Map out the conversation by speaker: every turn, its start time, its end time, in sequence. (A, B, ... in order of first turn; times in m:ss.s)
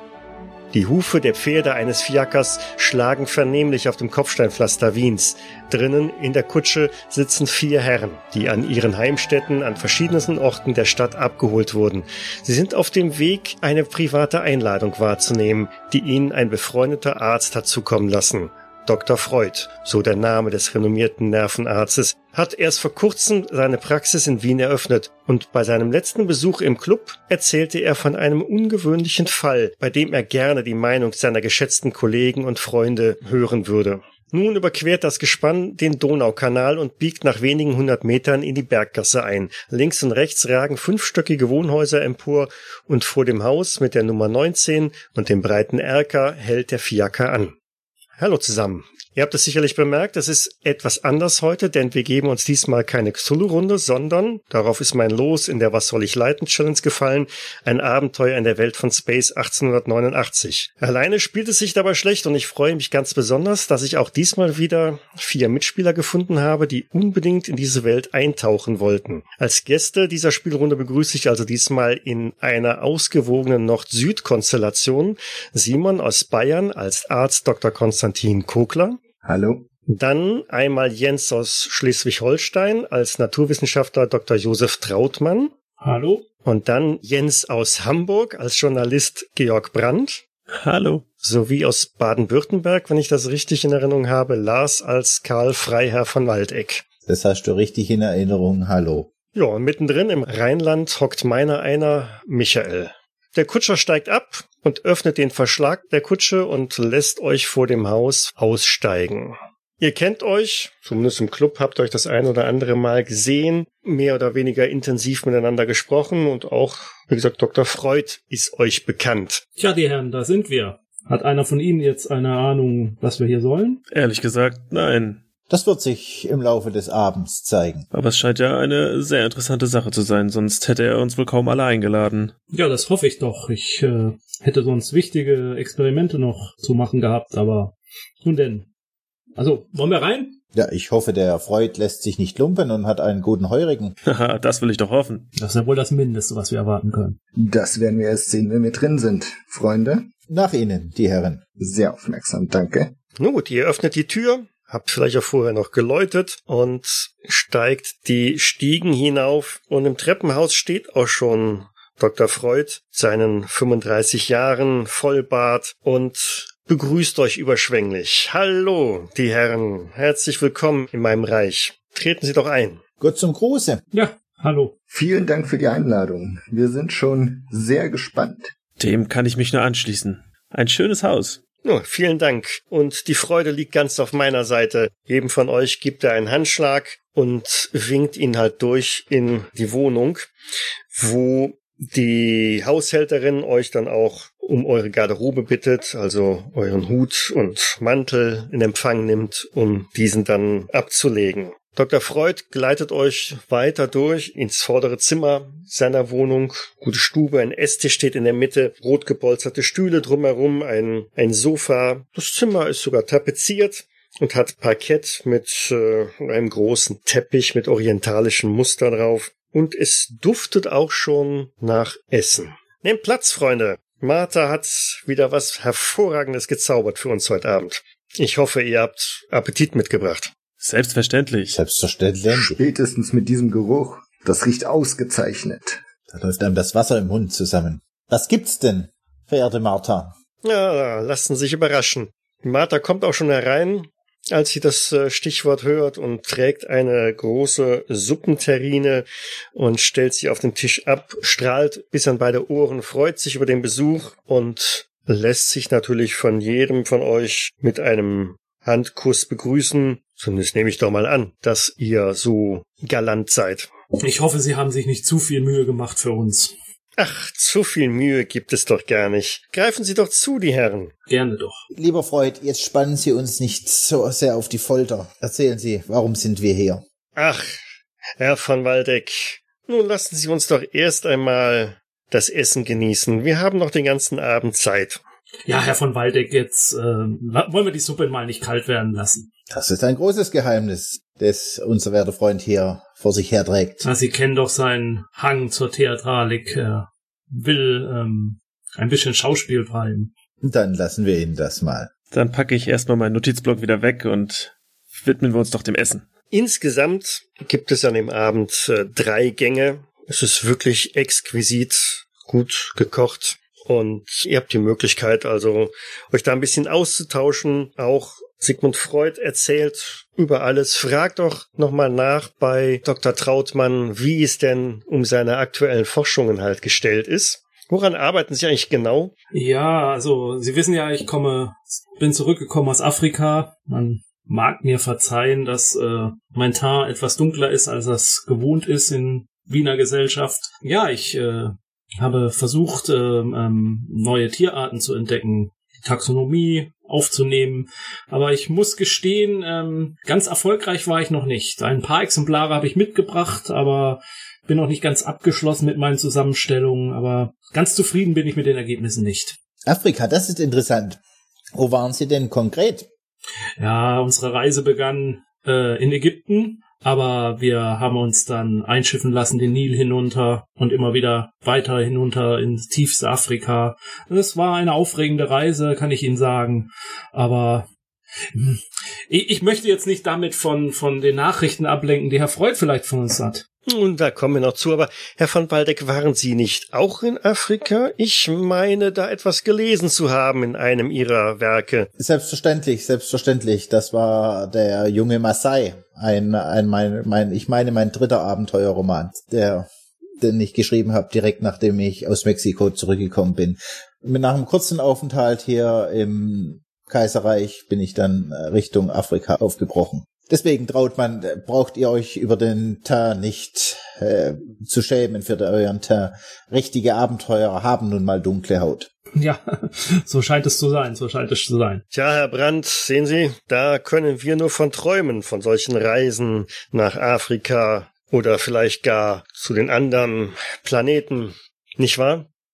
0:00.7-0:47.6 A
0:48.2-1:19.0 A
1:19.2-1:19.7 B
1:19.9-1:25.5 A
1:25.8-1:26.2 C
1:26.4-1:30.2 A
1:30.5-1:31.1 D
1:31.2-1:36.8 A
1:37.1-1:39.1 E
1:39.4-1:59.4 A
1:59.6-2:03.8 C
2:03.9-2:05.2 D
2:05.5-2:07.9 E
2:07.9-2:12.3 D
2:12.5-2:18.7 C
2:19.4-2:20.4 C
2:20.6-2:24.0 E
2:24.0-2:25.3 D
2:25.4-2:27.2 C
2:27.4-2:30.1 B
2:30.3-2:31.4 E
2:31.6-2:32.9 B
2:33.2-2:52.8 A
2:53.0-2:53.8 E
2:53.9-2:54.7 C
2:54.9-2:58.5 B
2:58.8-3:01.4 D
3:01.6-3:10.3 A
3:10.9-3:50.3 A
3:50.6-3:51.6 D
3:51.5-3:52.6 E
3:52.3-3:55.8 B
3:56.1-4:00.1 E
4:00.4-4:23.7 A
4:24.0-4:26.5 C
4:27.0-4:30.9 A
4:31.1-4:31.6 C
4:31.7-4:36.8 E
4:37.2-4:37.6 A
4:38.2-4:45.0 A
4:45.5-4:49.3 C
4:49.5-4:53.8 E
4:53.8-5:00.1 C
5:00.4-5:01.9 E
5:02.1-5:06.1 D
5:06.3-5:29.1 A
5:29.3-5:59.4 C
5:59.7-6:01.0 E
6:01.6-6:02.9 E
6:03.6-6:17.7 C
6:18.3-6:23.4 C
6:23.7-6:31.9 A
6:32.0-6:39.7 E
6:40.2-6:58.9 E
6:59.2-7:01.8 C
7:01.9-7:12.3 A